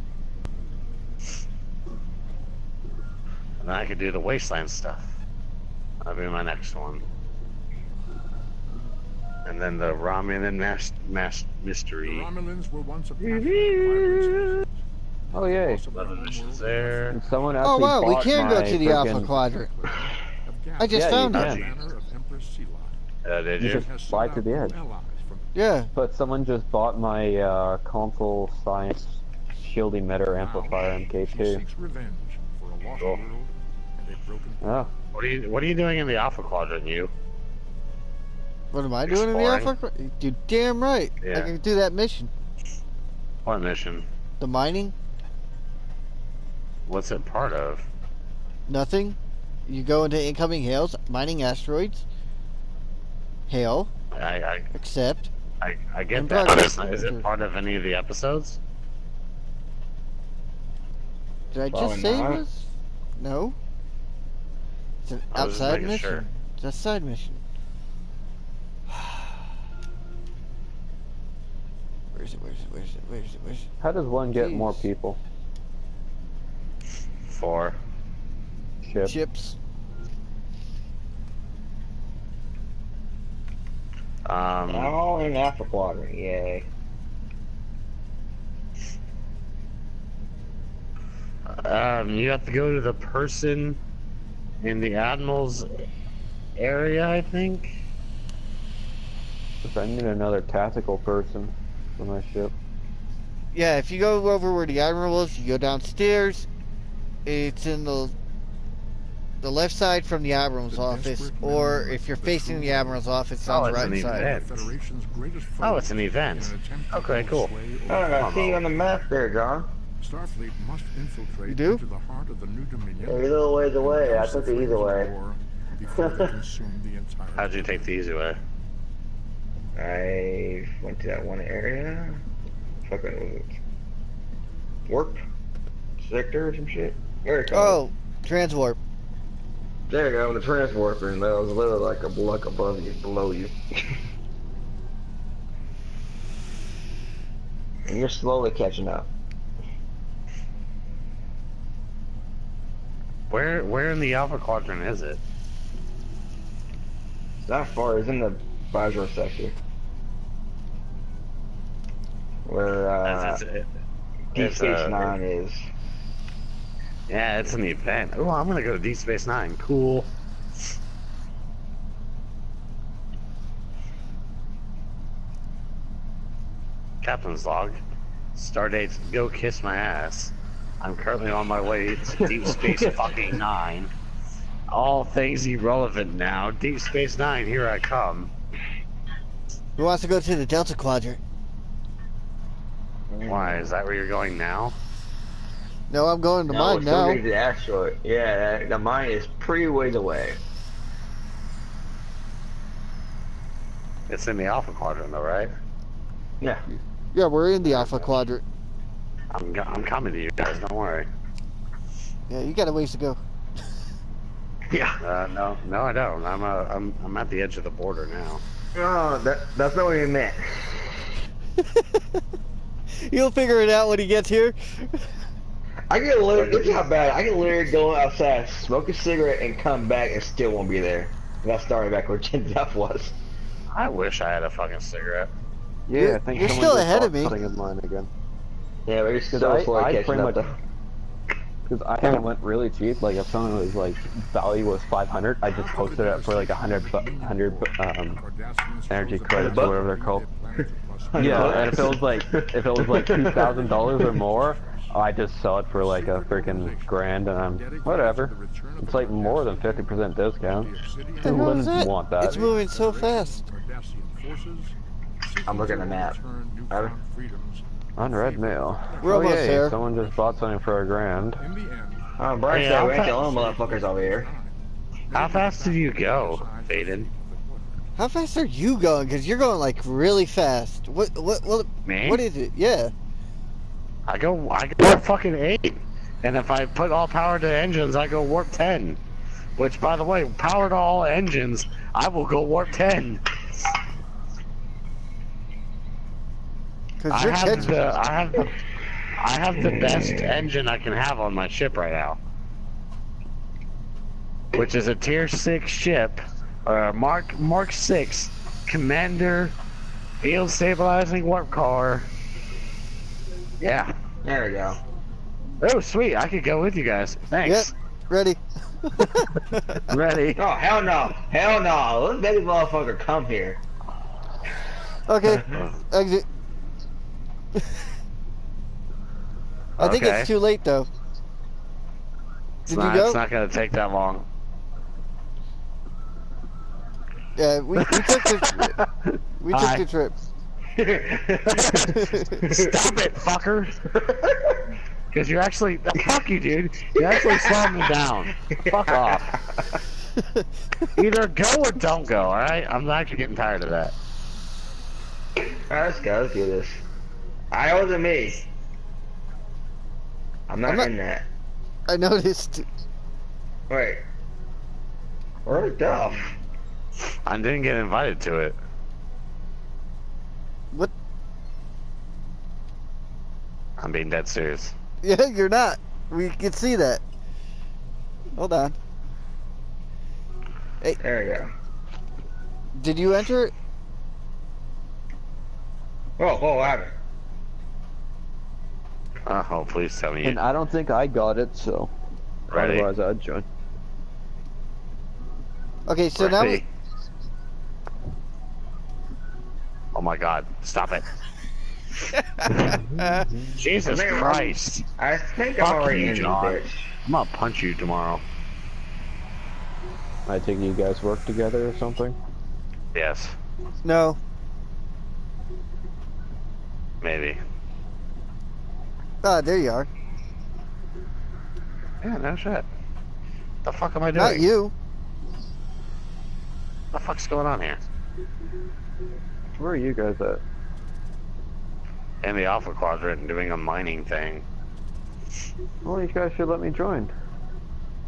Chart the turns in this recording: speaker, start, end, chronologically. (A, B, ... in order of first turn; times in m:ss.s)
0:03.6-0:05.2 A
0:06.0-0:07.0 A
0:09.4-0:12.3 A
0:12.0-0:23.0 B
0:13.2-0:14.6 A
0:15.3-0:15.8 C
0:15.9-0:17.2 A
0:17.1-0:19.4 C
0:17.6-0:19.7 D
0:20.8-0:21.5 D
0:20.8-0:21.7 C
0:21.3-0:21.8 A
0:23.2-0:23.9 A
0:23.6-0:25.5 B
0:23.6-0:24.8 C
0:25.5-0:25.9 D
0:26.0-0:31.6 C
0:30.3-0:34.7 B
0:34.6-0:34.9 C
0:35.1-0:37.1 A
0:38.7-0:42.3 D
0:39.1-0:39.7 A
0:41.2-0:41.5 A
0:43.4-0:44.1 A
0:44.4-0:44.9 D
0:46.9-0:47.9 A
0:48.7-0:52.1 D
0:53.5-0:53.9 D
0:54.1-0:54.7 A
0:54.7-0:55.3 D
0:55.6-0:58.6 A
0:56.1-0:57.2 D
1:01.5-1:03.6 D
1:01.7-1:02.4 E
1:05.0-1:07.4 D
1:05.3-1:06.3 A
1:08.9-1:09.3 D
1:12.1-1:13.7 D
1:13.8-1:15.2 C
1:14.4-1:14.9 D
1:17.3-1:17.8 A
1:18.8-1:19.2 C
1:19.0-1:19.6 D
1:24.3-1:25.0 A
1:24.7-1:26.7 E
1:31.5-1:33.8 A
1:34.6-1:35.8 A
1:36.6-1:37.8 A
1:39.6-1:42.5 C
1:43.5-1:46.5 D
1:47.3-1:48.2 D
1:49.4-1:54.3 D
1:50.7-1:58.8 B
1:53.4-1:54.6 A
1:55.6-1:57.5 A
1:57.9-1:59.7 E
1:58.2-1:58.6 A
2:00.0-2:07.9 B
2:01.5-2:01.8 D
2:03.0-2:05.1 E
2:07.4-2:08.4 A
2:09.8-2:12.2 E
2:12.8-2:13.6 E
2:14.9-2:15.2 E
2:16.0-2:17.8 E
2:17.5-2:18.8 D
2:19.9-2:24.0 E
2:27.9-2:29.1 E
2:33.3-2:35.2 A
2:37.4-2:39.6 E
2:42.4-2:43.4 E
2:43.0-2:43.7 A
2:44.3-2:45.7 E
2:44.4-2:45.2 A
2:47.1-2:50.1 A
2:57.0-2:57.8 A
2:58.4-3:03.9 A
3:04.7-3:08.3 A
3:09.8-3:11.2 D
3:13.1-3:13.7 E
3:13.3-3:14.8 A
3:15.9-3:17.2 D
3:16.5-3:20.4 E
3:24.1-3:25.5 A
3:27.1-3:28.4 D
3:29.3-3:31.1 A
3:32.3-3:33.2 D
3:34.7-3:35.0 E
3:35.0-3:38.4 A
3:38.7-3:40.8 E
3:41.6-3:42.0 D
3:42.9-3:45.1 D
3:45.9-3:53.2 E
3:46.4-3:46.8 A
3:53.7-3:55.3 A
3:55.9-3:58.1 C
3:56.0-3:57.4 D
3:58.9-4:00.6 E
3:59.3-4:00.5 C
4:01.7-4:08.2 C
4:05.4-4:15.0 B
4:08.9-4:10.2 C
4:09.4-4:09.8 E
4:11.1-4:14.2 E
4:11.2-4:20.7 C
4:15.7-4:30.1 B
4:21.2-4:22.4 C
4:21.2-4:23.5 D
4:25.5-4:26.2 E
4:26.7-4:27.0 E
4:28.0-4:31.4 C
4:29.0-4:29.8 D
4:31.4-4:38.0 B
4:32.2-4:34.3 E
4:32.5-4:33.1 A
4:35.1-4:37.1 A
4:38.0-4:42.9 D
4:41.9-4:42.2 A
4:44.1-4:49.0 A
4:49.6-4:53.3 A
4:57.0-4:57.8 D
4:57.1-4:58.6 A
4:59.1-5:02.2 A
4:59.6-5:00.5 E
5:04.6-5:09.6 A
5:10.2-5:12.1 A
5:13.6-5:13.9 A
5:14.2-5:14.8 E
5:15.6-5:17.7 A
5:17.4-5:19.8 D
5:19.2-5:20.4 A
5:20.4-5:23.6 E
5:25.1-5:26.2 D
5:25.5-5:25.8 A
5:29.8-5:30.3 A
5:29.8-5:30.9 D
5:32.7-5:33.2 D
5:32.7-5:34.3 A
5:37.4-5:38.8 D
5:37.8-5:38.7 A
5:39.4-5:40.2 D
5:39.5-5:39.8 A
5:40.8-5:41.7 E
5:41.4-5:43.8 A
5:41.8-5:42.4 D
5:42.4-5:42.7 E
5:44.0-5:44.6 E
5:45.1-5:49.4 A
5:47.1-5:47.9 E
5:48.5-5:49.6 E
5:51.0-5:54.0 A
5:55.7-5:56.8 E
5:57.5-5:58.4 E
6:00.5-6:01.3 E
6:01.9-6:02.6 D
6:03.7-6:04.0 E
6:05.5-6:06.3 E
6:07.2-6:08.6 A
6:13.8-6:14.8 A
6:15.0-6:17.0 D
6:18.4-6:18.8 D
6:21.0-6:21.5 E
6:22.8-6:23.5 D
6:26.2-6:27.0 E
6:29.3-6:30.4 A
6:30.2-6:31.9 C
6:32.5-6:33.5 C
6:32.5-6:32.9 A
6:35.9-6:36.6 D
6:36.2-6:36.6 A
6:39.9-6:41.1 A
6:42.4-6:43.3 D
6:42.4-6:42.8 A
6:43.5-6:44.9 A
6:43.8-6:47.0 E
6:45.6-6:48.2 A
6:50.3-6:52.2 C
6:52.9-6:53.4 A
6:53.8-6:54.2 D
6:57.0-6:57.4 A
6:59.2-6:59.9 D
7:02.0-7:02.7 A
7:03.6-7:04.5 A
7:04.1-7:04.7 D
7:06.9-7:07.8 A
7:09.6-7:10.4 C
7:12.2-7:14.4 A
7:15.8-7:17.1 C